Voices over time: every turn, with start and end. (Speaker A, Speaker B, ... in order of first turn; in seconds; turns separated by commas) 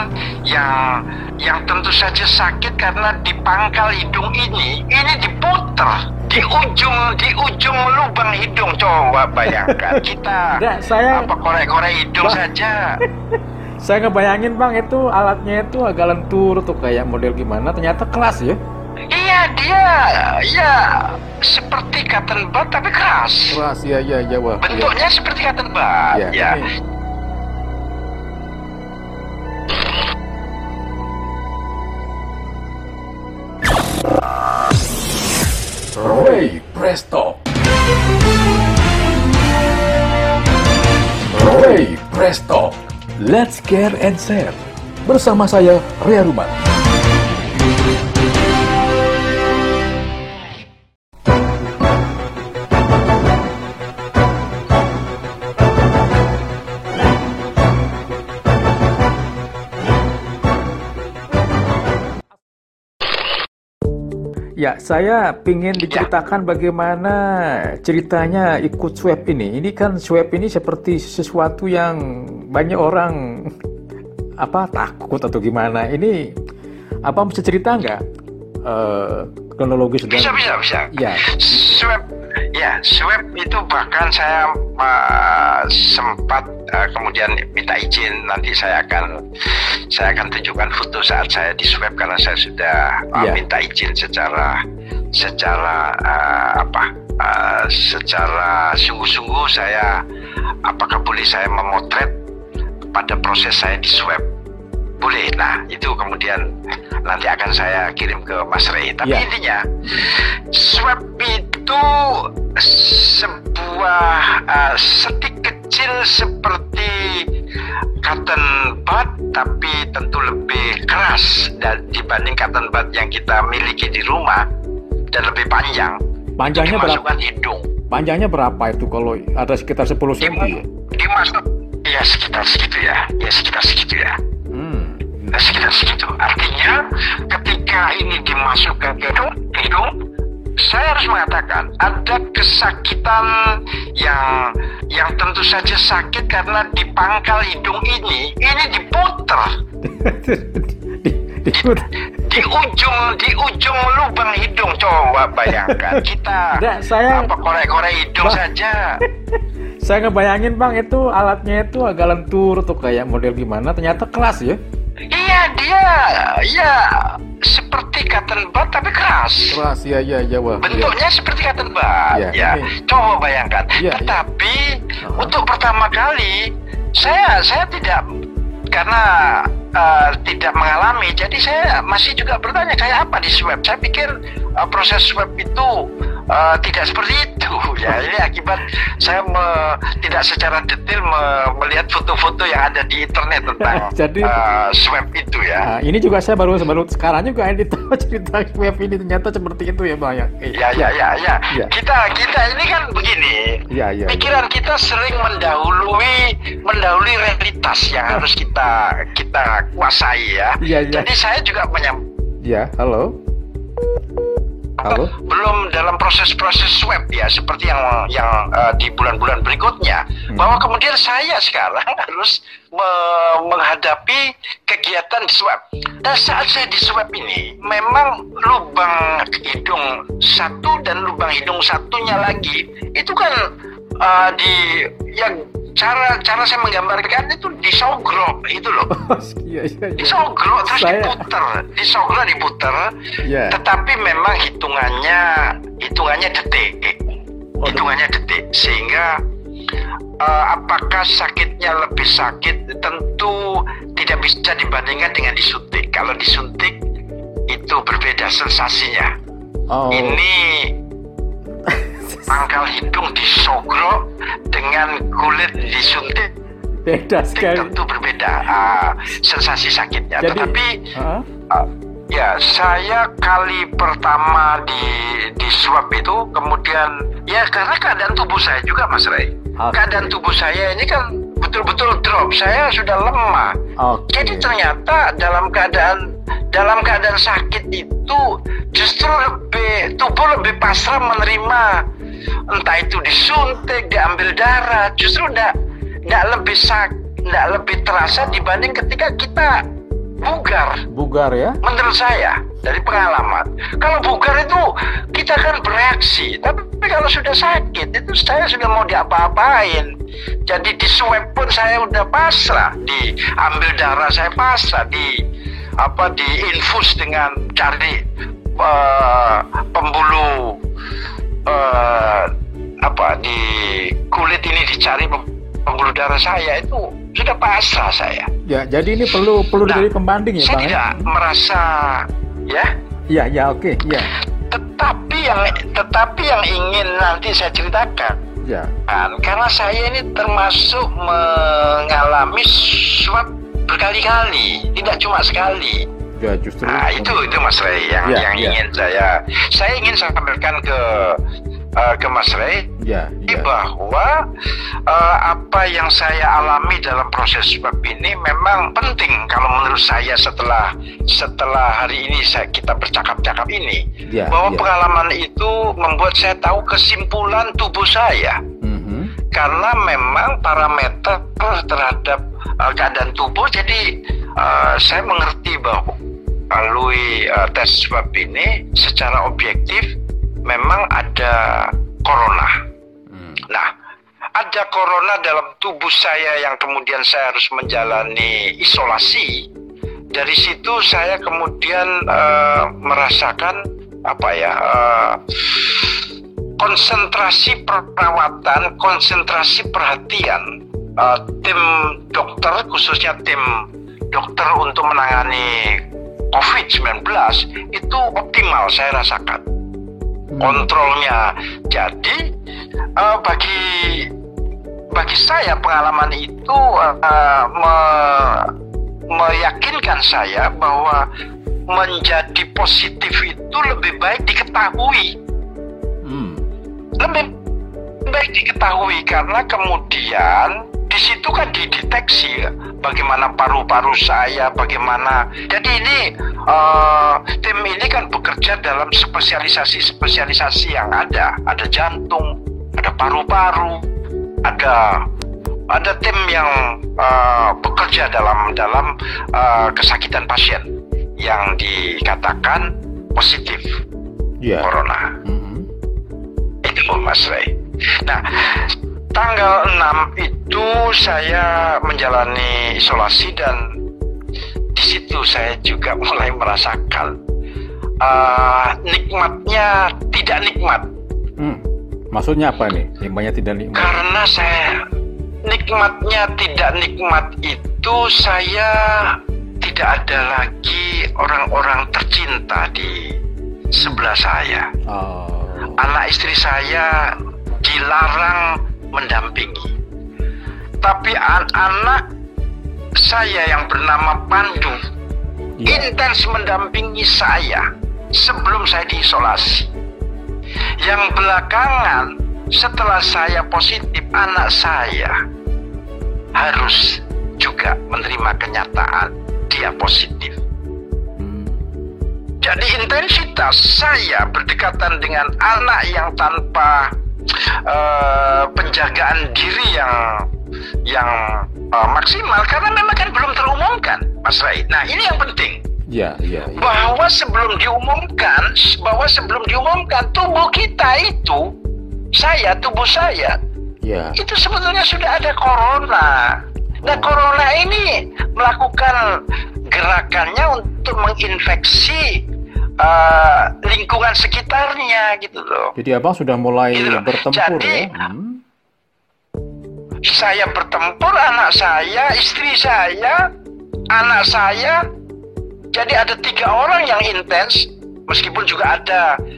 Speaker A: 0.5-10.5, Speaker B: 9.4-11.3, Speaker A: 11.1-12.9, Speaker B: 13.0-18.6, Speaker A: 19.1-23.6, Speaker B: 23.5-24.9, Speaker A: 24.6-26.6, Speaker B: 26.1-26.7, Speaker C: 36.0-37.4, Speaker B: 36.2-36.6, Speaker C: 41.4-44.6, Speaker B: 41.5-41.8, Speaker B: 43.3-44.5, Speaker B: 45.1-46.5, Speaker C: 45.1-46.5, Speaker B: 64.6-73.5, Speaker B: 74.4-76.2, Speaker B: 77.0-78.0, Speaker B: 78.7-81.8, Speaker A: 80.0-94.6, Speaker B: 93.2-93.4, Speaker A: 95.2-100.0, Speaker A: 100.6-102.1, Speaker A: 102.9-104.2, Speaker A: 105.0-106.4, Speaker A: 107.0-109.7, Speaker B: 109.0-109.3, Speaker B: 109.8-110.2, Speaker A: 110.5-117.3, Speaker A: 118.0-124.4, Speaker A: 125.1-127.7, Speaker B: 126.4-127.0, Speaker B: 127.8-130.6, Speaker A: 130.2-134.2, Speaker B: 134.5-135.4, Speaker A: 135.3-140.0, Speaker A: 140.6-149.5, Speaker B: 149.8-152.4, Speaker A: 151.5-159.0, Speaker B: 155.4-157.3, Speaker B: 158.2-158.5, Speaker B: 159.0-164.6, Speaker A: 165.1-169.6, Speaker B: 169.5-170.9, Speaker A: 170.6-178.0, Speaker B: 172.1-172.8, Speaker B: 173.8-174.2, Speaker B: 175.0-175.3, Speaker A: 178.7-195.7, Speaker B: 193.5-194.4, Speaker B: 195.6-200.9, Speaker A: 200.5-212.0, Speaker B: 203.7-204.3, Speaker B: 210.6-211.1, Speaker B: 212.4-213.1, Speaker A: 214.8-233.4, Speaker B: 214.8-215.1, Speaker B: 220.3-220.6, Speaker A: 234.0-238.9, Speaker B: 238.9-241.3, Speaker A: 240.0-242.8, Speaker B: 243.2-243.6, Speaker A: 243.5-247.0, Speaker B: 247.6-247.9, Speaker A: 247.6-249.2, Speaker A: 250.2-256.8, Speaker A: 257.5-259.1, Speaker B: 259.7-260.2, Speaker A: 259.9-260.7, Speaker B: 261.6-262.4, Speaker A: 262.3-266.3, Speaker B: 266.8-267.8, Speaker A: 267.4-270.8, Speaker B: 270.2-271.2, Speaker A: 271.5-283.5, Speaker B: 279.6-280.1, Speaker B: 283.8-284.5, Speaker A: 284.1-288.2, Speaker A: 288.7-291.8, Speaker A: 292.5-295.5, Speaker A: 296.1-299.6, Speaker B: 298.1-298.4, Speaker A: 300.2-300.8, Speaker B: 300.9-301.6, Speaker A: 301.6-309.9, Speaker A: 310.5-315.1, Speaker A: 315.8-318.0, Speaker A: 318.6-320.6, Speaker A: 321.4-322.3, Speaker A: 322.8-328.3, Speaker B: 328.5-331.1, Speaker A: 329.6-332.7, Speaker B: 333.1-334.1, Speaker A: 334.5-338.2, Speaker B: 338.4-338.7, Speaker A: 338.9-345.9, Speaker B: 346.2-347.4, Speaker A: 346.6-351.2, Speaker B: 348.0-348.6, Speaker A: 351.8-352.6, Speaker B: 352.8-353.5, Speaker A: 353.3-354.1, Speaker A: 354.9-368.4, Speaker B: 364.1-364.7, Speaker B: 368.6-369.1, Speaker A: 369.3-373.8, Speaker A: 374.4-376.0, Speaker A: 376.5-379.9, Speaker A: 380.4-382.5, Speaker B: 383.1-383.4, Speaker A: 384.4-389.4, Speaker A: 390.1-396.0, Speaker A: 396.6-400.4, Speaker A: 401.0-403.4, Speaker A: 404.1-405.8, Speaker A: 406.3-409.4, Speaker B: 410.3-410.7, Speaker A: 410.4-412.2, Speaker A: 413.0-414.1, Speaker A: 414.9-418.5, Speaker A: 419.1-421.0, Speaker A: 421.7-425.1, Speaker B: 426.0-426.4, Speaker A: 427.0-427.3, Speaker A: 428.1-443.8, Speaker A: 444.4-445.1, Speaker A: 445.7-450.7, Speaker A: 451.2-453.7, Speaker B: 454.4-454.7, Speaker A: 454.6-455.1, Speaker B: 455.2-455.6, Speaker A: 456.6-457.5, Speaker A: 458.0-463.6, Speaker A: 464.7-467.1, Speaker A: 468.0-470.9, Speaker B: 472.1-474.0, Speaker A: 473.7-474.8, Speaker A: 475.5-483.1, Speaker A: 483.7-484.7, Speaker B: 483.7-484.0, Speaker B: 484.9-485.7, Speaker A: 485.8-489.7, Speaker A: 490.8-492.0, Speaker A: 493.0-494.8, Speaker B: 495.6-495.9, Speaker A: 495.6-499.7, Speaker A: 500.8-505.1, Speaker A: 506.4-510.4, Speaker B: 511.2-511.7, Speaker A: 512.4-516.9, Speaker A: 517.6-520.2, Speaker A: 520.9-525.6, Speaker B: 525.9-526.7, Speaker A: 526.5-531.4, Speaker A: 532.1-533.4, Speaker B: 533.8-534.1, Speaker A: 534.2-539.0, Speaker B: 536.8-537.2, Speaker A: 539.7-542.2, Speaker A: 542.8-545.7, Speaker B: 545.8-548.4, Speaker A: 546.7-547.9, Speaker A: 550.0-553.2, Speaker A: 553.9-554.8, Speaker A: 555.7-559.1